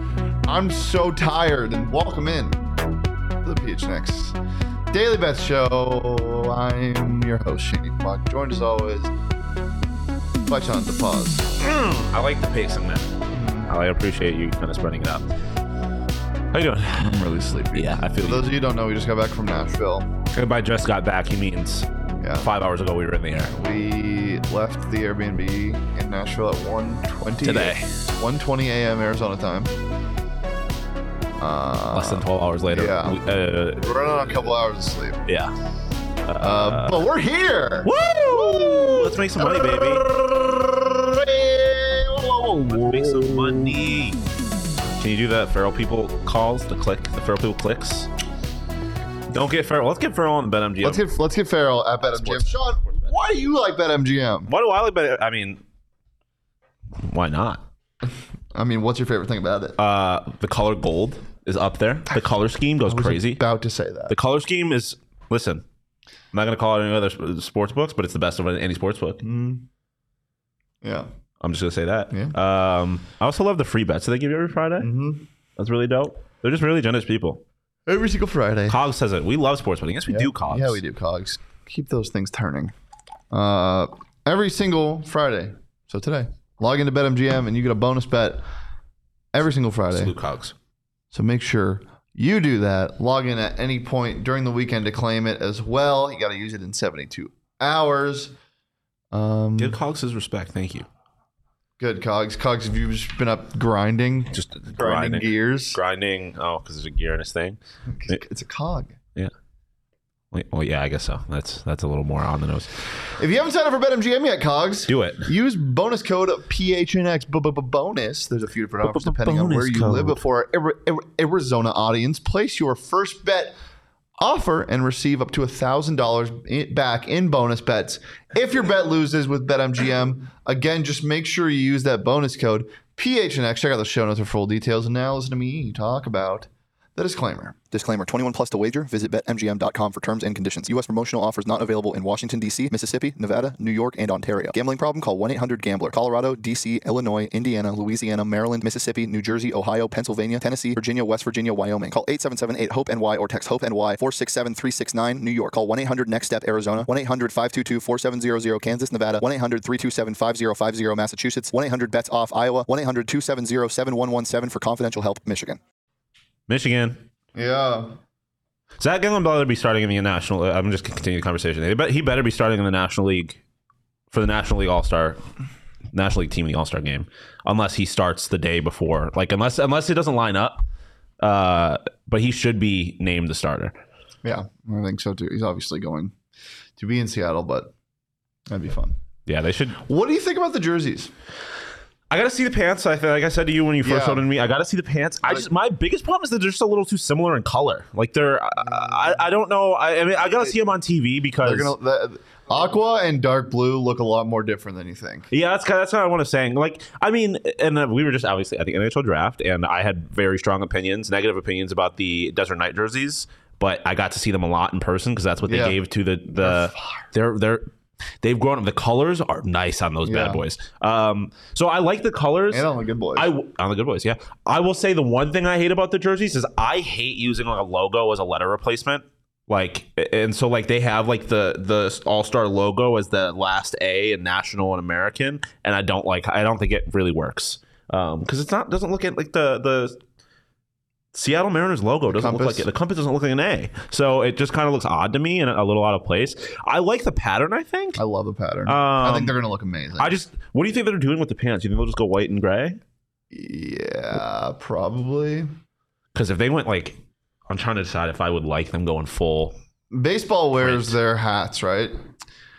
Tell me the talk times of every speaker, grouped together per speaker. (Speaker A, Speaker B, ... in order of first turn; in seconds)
Speaker A: 0.5-2.6, 3.4-4.4, 4.9-9.1, 10.4-11.5, 13.3-13.7, 17.0-20.1, 22.2-22.5, 23.5-29.7, 31.4-33.2, 33.8-35.2, 36.4-43.7, 50.8-54.5, 58.0-59.8, 62.9-64.1, 69.2-69.7, 70.8-71.1, 74.8-75.3, 77.9-78.7, 80.1-82.7, 83.3-88.4, 89.3-90.1, 91.1-98.3, 99.1-99.8, 101.8-105.8, 107.9-109.0, 113.2-123.6, 124.2-137.6, 167.3-167.9, 184.2-186.1, 186.8-187.7, 188.5-188.9, 189.8-191.1, 193.8-194.2, 198.7-199.2, 201.4-205.3, 215.5-215.8, 216.4-217.1, 220.0-220.4, 222.5-223.2, 242.1-242.6, 248.0-250.1, 253.3-255.5, 259.9-262.0
Speaker B: 11.6-13.1, 13.7-15.2, 16.5-18.6, 20.3-21.9, 22.4-23.5, 27.4-27.9, 31.9-34.4, 35.2-35.5, 36.2-37.0, 37.8-40.1, 42.7-44.2, 45.0-48.1, 49.3-51.0, 52.0-53.1, 54.5-55.6, 57.0-57.6, 59.8-63.4, 64.1-65.6, 66.3-69.2, 71.4-74.9, 75.6-77.4, 78.7-80.8, 89.9-90.5, 99.6-100.9, 104.3-108.2, 110.3-112.8, 114.9-115.3, 118.8-120.2, 166.5-167.0, 168.8-173.4, 174.1-175.2, 175.9-180.6, 181.2-183.8, 189.2-189.8, 192.1-201.7, 205.3-217.6, 218.2-240.0, 241.1-248.0, 248.7-249.4, 250.0-252.8, 256.1-259.6, 260.6-261.0
Speaker C: 137.6-165.6